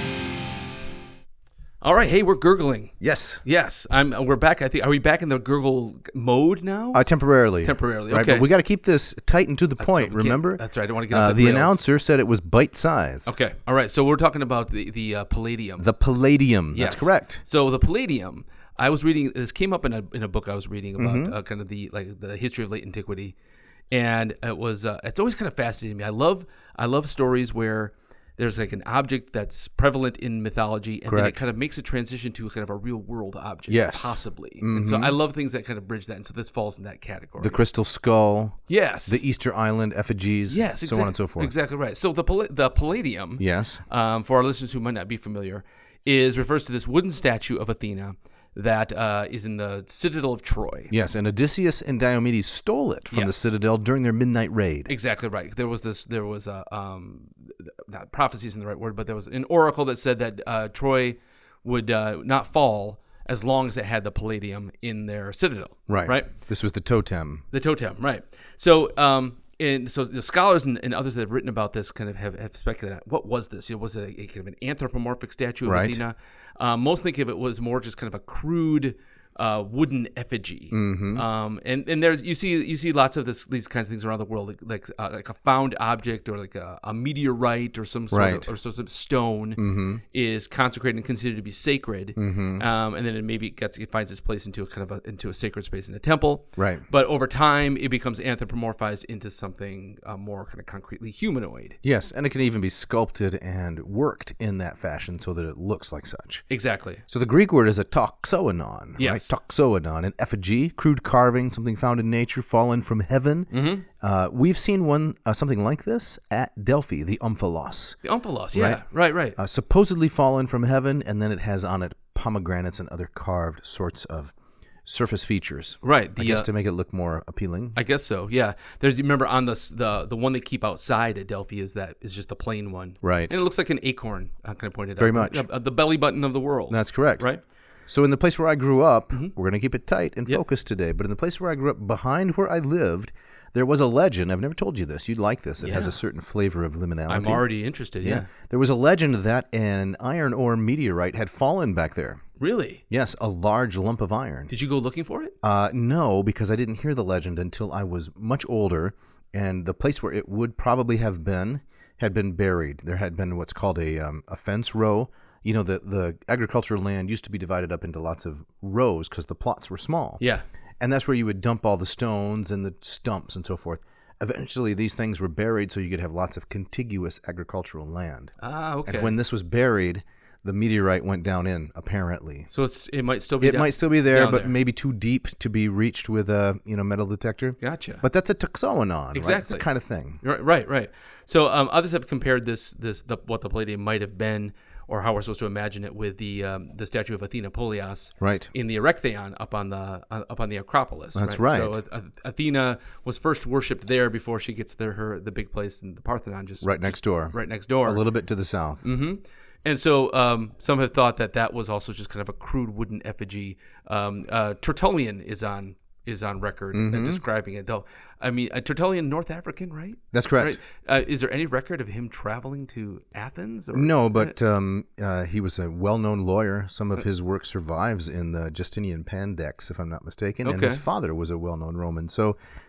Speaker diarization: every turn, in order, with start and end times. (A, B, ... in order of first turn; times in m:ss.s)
0:01.8-0:07.1 A
0:03.0-0:03.4 B
0:06.9-0:13.3 B
0:07.6-0:08.5 A
0:09.8-0:11.8 A
0:13.2-0:15.9 A
0:15.8-0:17.4 B
0:16.7-0:23.4 A
0:21.0-0:21.3 B
0:23.9-0:37.6 A
0:31.1-0:31.4 B
0:33.7-0:35.2 B
0:37.4-0:41.5 B
0:38.7-0:39.2 A
0:40.5-0:50.9 A
0:43.4-0:43.8 B
0:50.9-0:54.9 B
0:53.1-0:53.4 A
0:54.9-1:06.4 A
1:05.9-1:07.4 B
1:07.5-1:41.8 A
1:15.6-1:16.0 B
1:20.7-1:21.2 B
1:28.1-1:28.5 B
1:29.6-1:30.0 B
1:32.2-1:32.6 B
1:36.6-1:36.8 B
1:41.8-1:46.4 B
1:46.5-1:47.0 A
1:47.1-1:58.0 B
1:49.0-1:49.4 A
1:53.5-1:53.9 A
1:58.0-1:59.4 A
1:58.5-1:58.8 B
1:59.4-2:04.3 B
2:04.8-2:07.8 B
2:05.8-2:06.5 A
2:07.7-2:17.4 A
2:13.0-2:13.3 B
2:15.0-2:15.5 B
2:16.7-2:17.2 B
2:17.9-2:27.4 B
2:25.6-2:26.0 A
2:27.1-2:28.3 A
2:28.0-2:32.2 B
2:32.4-2:32.8 A
2:32.9-2:34.5 B
2:34.5-2:35.3 A
2:35.4-2:50.2 B
2:50.2-2:50.4 A
2:50.8-2:58.3 B
2:58.4-2:59.2 A
2:58.8-3:02.5 B
3:02.5-3:04.6 A
3:03.4-3:10.2 B
3:07.6-3:08.0 A
3:09.1-3:09.7 A
3:10.2-3:28.0 A
3:18.2-3:18.5 B
3:21.1-3:21.8 B
3:26.6-3:28.8 B
3:28.8-3:44.3 A
3:36.7-3:37.2 B
3:40.1-3:40.6 B
3:43.7-3:52.4 B
3:50.4-3:50.8 A